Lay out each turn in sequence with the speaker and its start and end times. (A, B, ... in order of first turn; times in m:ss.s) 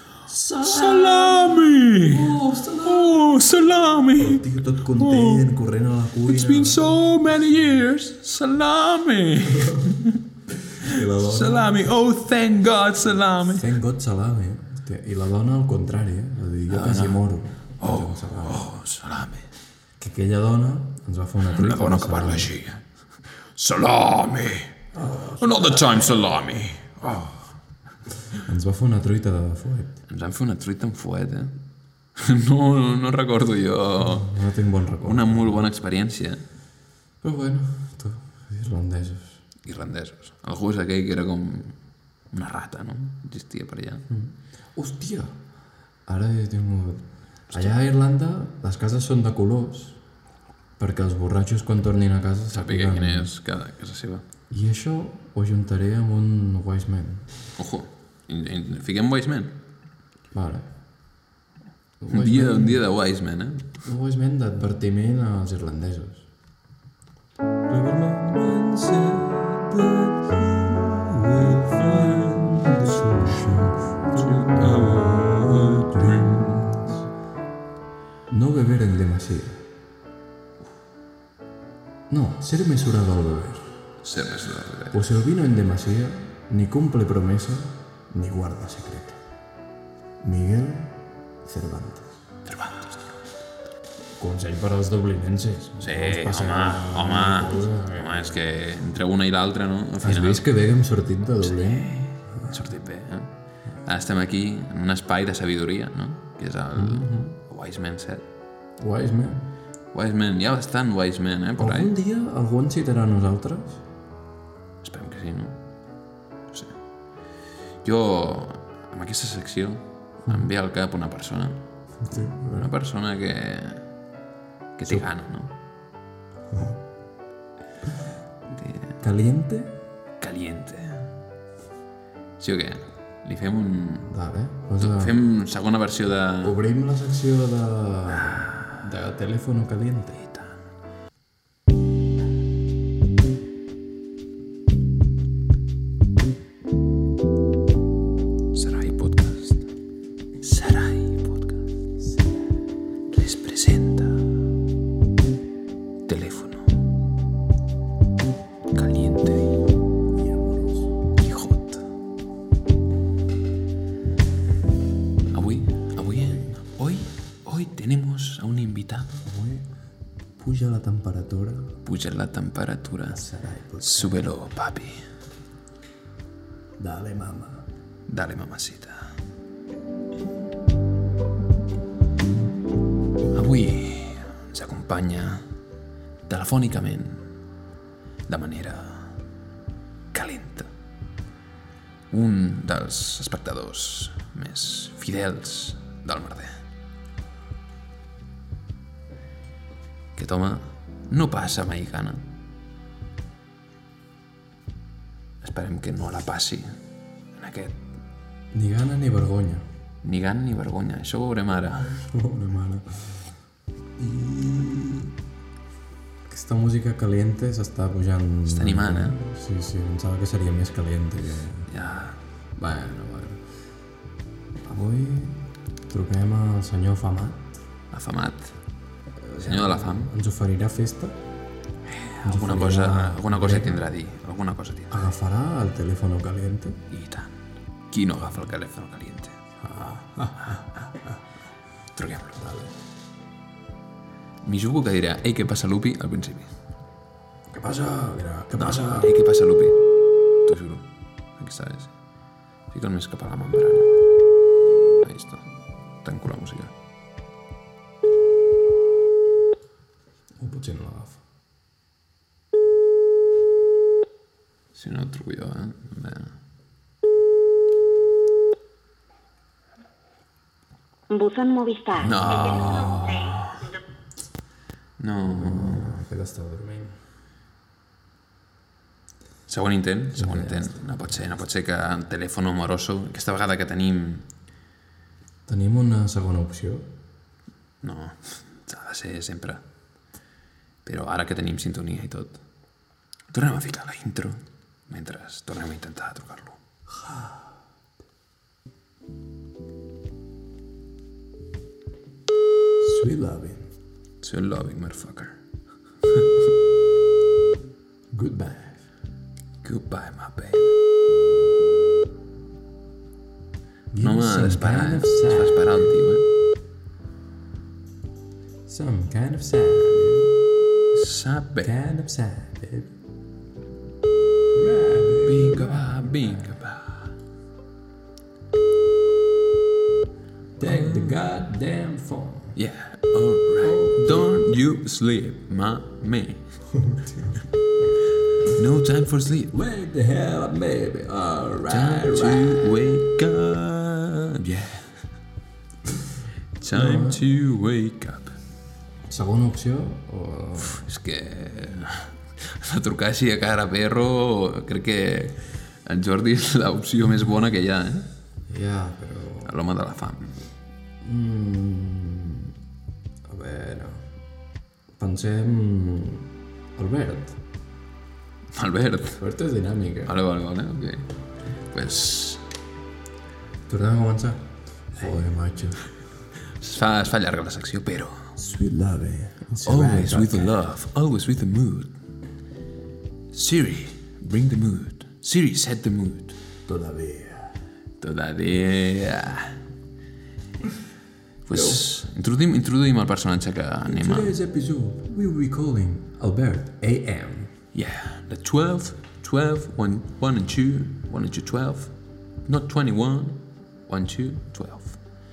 0:00.3-0:03.3 A
0:00.6-0:05.4 B
0:04.2-0:07.0 A
0:06.2-0:10.2 B
0:10.8-0:11.8 A
0:10.8-0:13.7 B
0:13.5-0:18.7 A
0:16.7-0:17.2 B
0:17.8-0:19.5 B
0:20.0-0:22.5 A
0:21.5-0:24.8 B
0:24.9-0:26.1 A
0:25.4-0:27.5 B
0:28.4-0:30.0 A
0:30.1-0:31.5 B
0:32.2-0:34.3 B
0:34.0-0:35.6 A
0:35.0-0:36.4 B
0:37.2-0:39.4 A
0:39.6-0:41.7 B
0:42.3-0:44.0 B
0:44.1-0:45.4 A
0:46.0-0:50.0 A
0:50.8-0:53.3 A
0:52.5-0:54.2 B
0:54.5-0:57.3 A
0:57.6-0:59.5 B
1:00.3-1:00.7 A
1:02.0-1:02.8 A
1:02.1-1:03.7 B
1:03.8-1:06.3 A
1:07.7-1:17.1 A
1:14.1-1:16.6 B
1:18.3-1:19.6 A
1:22.1-1:23.7 A
1:24.0-1:25.0 B
1:24.9-1:29.2 A
1:30.2-1:32.2 A
1:32.4-1:33.2 B
1:34.2-1:38.3 A
1:35.8-1:40.4 B
1:40.0-1:42.6 A
1:41.4-1:43.3 B
1:43.8-1:48.2 B
1:46.7-1:47.3 A
1:48.8-1:49.5 A
1:49.9-1:51.9 B
1:51.6-1:53.8 A
1:54.8-1:55.6 B
1:57.8-2:01.6 B
2:02.0-2:02.7 A
2:02.5-2:03.8 B
2:04.8-2:05.5 B
2:06.5-2:06.8 A
2:08.5-2:09.0 B
2:09.0-2:09.7 A
2:10.2-2:11.1 B
2:12.4-2:14.1 B
2:14.0-2:15.2 A
2:14.8-2:16.6 B
2:16.4-2:20.2 A
2:18.1-2:18.8 B
2:20.2-2:20.6 B
2:28.5-2:29.6 B
2:30.4-2:31.6 B
2:32.0-2:32.5 A
2:33.1-2:34.2 B
2:36.1-2:36.8 B
2:38.7-2:39.6 B
2:40.1-2:40.9 A
2:41.1-2:41.8 B
2:45.3-2:49.2 B
2:46.0-2:46.6 A
2:49.2-2:49.6 A
2:50.4-2:51.7 A
2:51.8-2:53.2 B
2:53.1-2:54.3 A
2:53.8-2:55.0 B
2:56.8-2:57.6 A
2:58.1-2:59.1 B
3:03.3-3:05.4 B
3:06.3-3:07.2 B
3:08.3-3:09.1 B
3:10.1-3:10.7 B
3:12.1-3:16.5 B
3:20.1-3:22.2 B
3:25.4-3:26.7 B
3:27.4-3:27.8 B
3:28.5-3:29.6 A
3:30.0-3:31.9 B
3:31.7-3:33.3 A
3:34.0-3:35.1 A
3:36.3-3:41.7 A
3:38.4-3:39.2 B
3:41.7-3:42.2 B
3:42.6-3:43.4 A
3:44.6-3:47.6 A
3:47.9-3:48.5 B
3:49.2-3:51.2 A
3:49.4-3:50.1 B
3:51.9-3:55.0 B
3:52.2-3:53.8 A
3:54.9-3:56.8 A
3:56.9-3:57.4 B
3:57.9-3:59.4 B
3:59.6-4:01.2 A
4:01.9-4:02.4 B
4:02.4-4:02.7 A
4:04.4-4:06.5 B
4:07.5-4:09.2 A
4:08.5-4:09.8 B
4:10.4-4:10.8 B
4:11.4-4:11.9 B
4:12.7-4:13.9 B
4:15.0-4:15.4 B
4:16.0-4:16.7 B
4:20.4-4:21.2 A
4:24.7-4:26.3 B
4:31.1-4:33.1 C
4:32.0-4:33.6 B
4:32.0-4:33.4 A
4:35.0-4:35.9 B
4:35.3-4:37.0 A
4:39.5-4:44.2 B
4:40.1-4:41.1 A
4:45.5-4:46.9 A
4:47.8-4:49.6 B
4:50.8-4:52.4 B
4:53.3-4:56.6 B
4:56.9-4:57.5 A
5:02.8-5:03.7 A
5:04.2-5:05.4 B
5:08.1-5:08.8 A
5:09.6-5:10.7 B
5:13.9-5:15.9 A
5:14.0-5:16.2 B
5:18.7-5:20.3 A
5:20.9-5:21.7 B
5:21.6-5:22.9 A
5:24.5-5:26.5 A
5:25.2-5:27.1 B
5:30.6-5:32.6 A
5:30.6-5:31.2 B
5:32.5-5:36.4 B
5:33.6-5:34.4 A
5:36.7-5:37.4 A
5:38.4-5:39.5 B
5:39.5-5:42.7 A
5:41.7-5:45.0 B
5:46.6-5:48.3 B
5:46.7-5:47.2 A
5:49.0-5:50.8 A
5:50.6-5:58.1 B
5:58.5-5:59.5 A
5:59.4-6:00.3 B
6:01.0-6:02.5 A
6:03.3-6:04.0 A
6:05.0-6:07.4 A
6:08.5-6:09.2 B
6:09.2-6:10.1 A
6:10.0-6:11.1 B
6:11.7-6:12.4 B
6:13.7-6:15.9 A
6:16.5-6:18.3 B
6:18.4-6:20.6 A
6:19.6-6:21.9 B
6:23.3-6:26.4 B
6:26.6-6:27.5 A
6:28.0-6:29.6 B
6:31.4-6:34.3 B
6:31.5-6:31.8 A
6:33.8-6:37.5 A
6:37.7-6:41.9 B
6:42.4-6:45.0 B